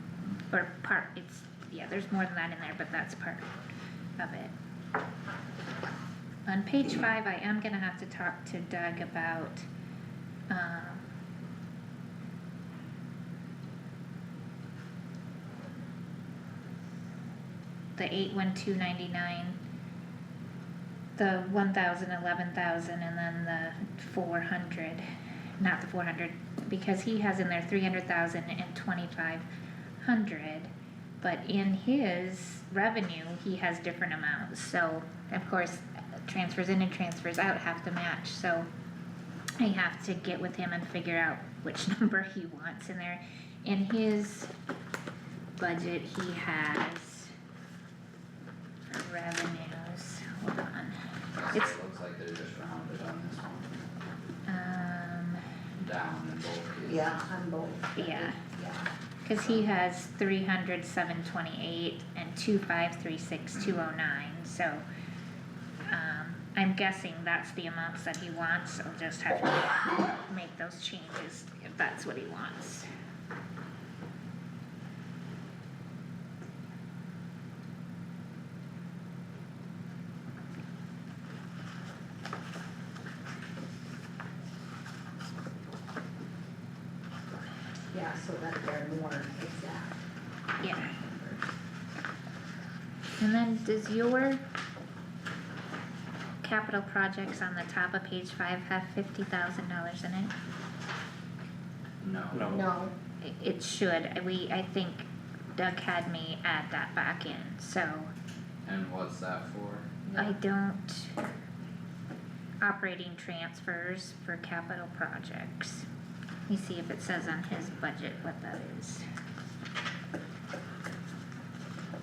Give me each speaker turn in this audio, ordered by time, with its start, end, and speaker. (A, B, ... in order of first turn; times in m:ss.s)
0:00.5-0:03.5 A
0:04.2-0:04.5 A
0:06.4-0:09.6 A
0:10.5-0:11.0 A
0:18.0-0:19.6 A
0:21.2-0:25.0 A
0:25.6-0:29.4 A
0:30.0-0:38.7 A
0:39.6-0:44.5 A
0:45.6-0:47.3 A
0:48.9-0:51.0 A
0:51.3-0:53.8 B
0:54.5-0:55.4 A
0:55.8-0:57.3 B
0:56.9-0:58.9 C
0:58.0-0:58.4 A
0:59.2-1:04.8 A
1:05.9-1:12.9 A
1:27.9-1:30.0 C
1:30.6-1:31.0 A
1:30.9-1:31.4 C
1:33.2-1:34.4 A
1:36.4-1:40.3 A
1:42.0-1:42.6 B
1:42.5-1:42.9 C
1:43.2-1:48.1 A
1:48.6-1:49.9 B
1:50.2-1:51.2 A
1:52.6-1:55.8 A
1:56.5-1:59.0 A